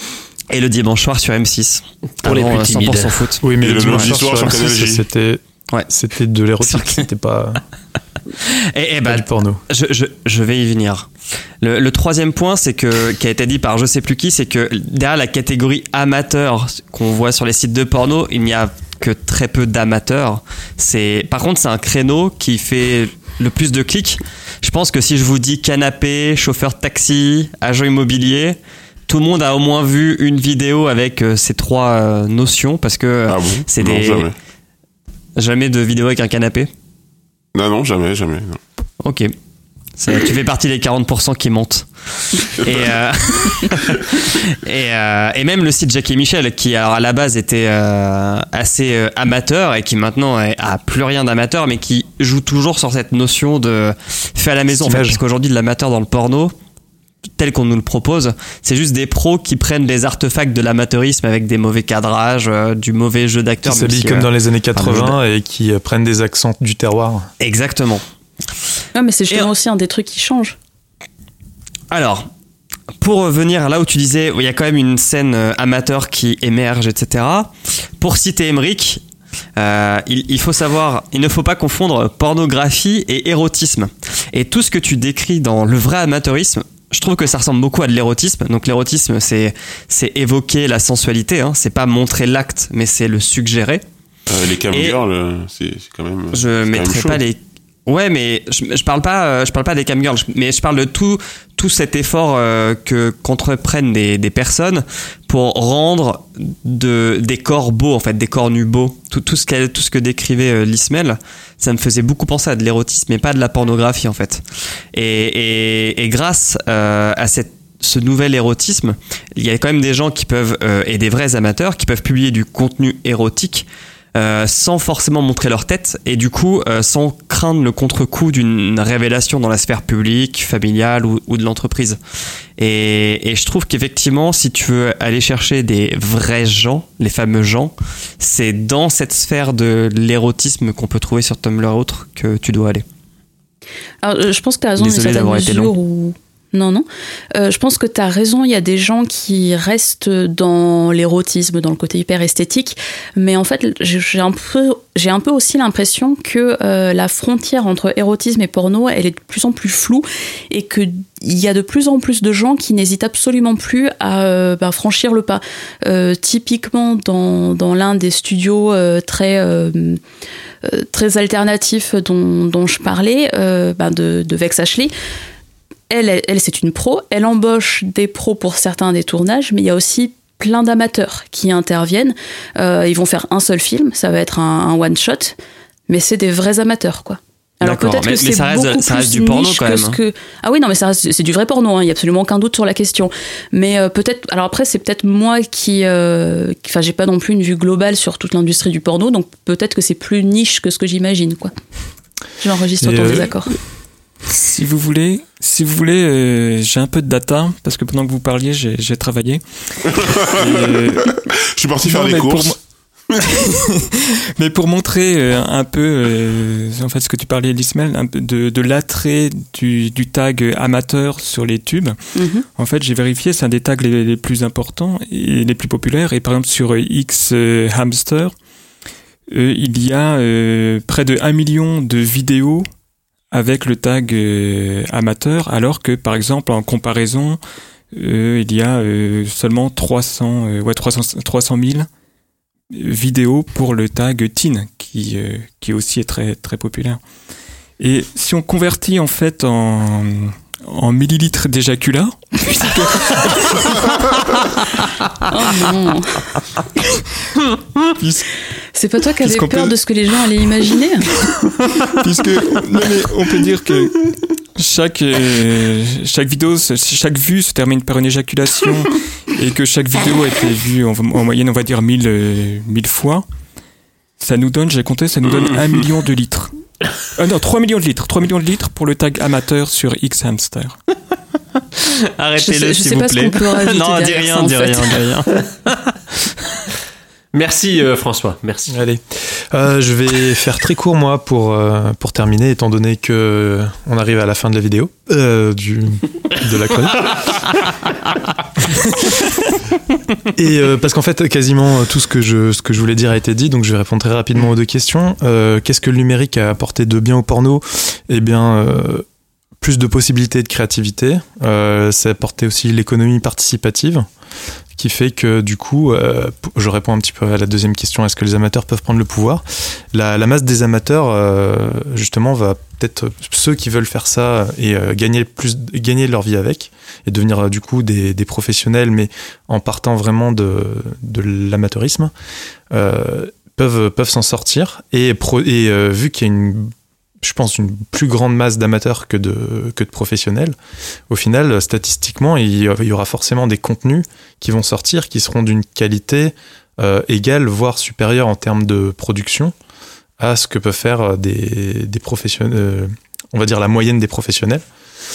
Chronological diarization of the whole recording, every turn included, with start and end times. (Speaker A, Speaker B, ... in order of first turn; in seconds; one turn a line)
Speaker A: 0.5-3.4
Speaker B: 2.2-3.2
Speaker C: 3.4-7.6
Speaker D: 3.6-5.0
Speaker A: 6.6-7.0
Speaker A: 8.6-11.1
Speaker C: 9.1-9.6
Speaker A: 11.6-34.3
Speaker D: 33.3-34.3
Speaker A: 35.4-36.7
Speaker D: 37.5-38.6
Speaker A: 39.0-39.3
Speaker A: 40.0-56.5
Speaker C: 54.7-55.2
Speaker A: 57.4-65.2
Speaker C: 63.6-67.3
Speaker A: 67.4-68.0
Speaker E: 69.0-70.6
Speaker A: 71.9-72.3
Speaker A: 73.0-79.0
Speaker A: 79.6-93.8
Speaker D: 94.3-97.2
Speaker A: 94.7-95.0
Speaker A: 96.3-114.4
Speaker A: 114.9-132.0
Speaker A: 132.6-142.8
Speaker E: 144.0-170.0
Speaker A: 144.8-145.7
Speaker E: 170.6-174.9
Speaker E: 175.9-185.4
Speaker E: 185.9-201.5
Speaker A: 187.6-190.0
Speaker E: 202.4-203.5
Speaker C: 202.8-203.3
Speaker F: 204.3-211.2
Speaker D: 210.0-212.6
Speaker F: 211.8-212.6
Speaker F: 213.3-222.0
Speaker E: 222.2-222.4
Speaker F: 222.6-228.3
Speaker F: 229.3-232.7
Speaker F: 233.3-237.4
Speaker F: 237.9-241.9
Speaker F: 242.7-247.0
Speaker F: 247.8-254.4
Speaker E: 255.3-256.2
Speaker F: 257.9-258.2
Speaker E: 258.8-261.1
Speaker F: 259.2-259.8
Speaker F: 261.3-273.2
Speaker F: 274.2-276.5
Speaker F: 277.1-280.8
Speaker A: 282.2-285.9
Speaker E: 282.4-285.0
Speaker B: 287.3-288.8
Speaker C: 288.7-297.4
Speaker C: 300.3-309.1
Speaker C: 309.6-314.1
Speaker C: 314.8-332.1
Speaker C: 332.7-340.6
Speaker C: 341.1-349.6
Speaker C: 350.2-354.6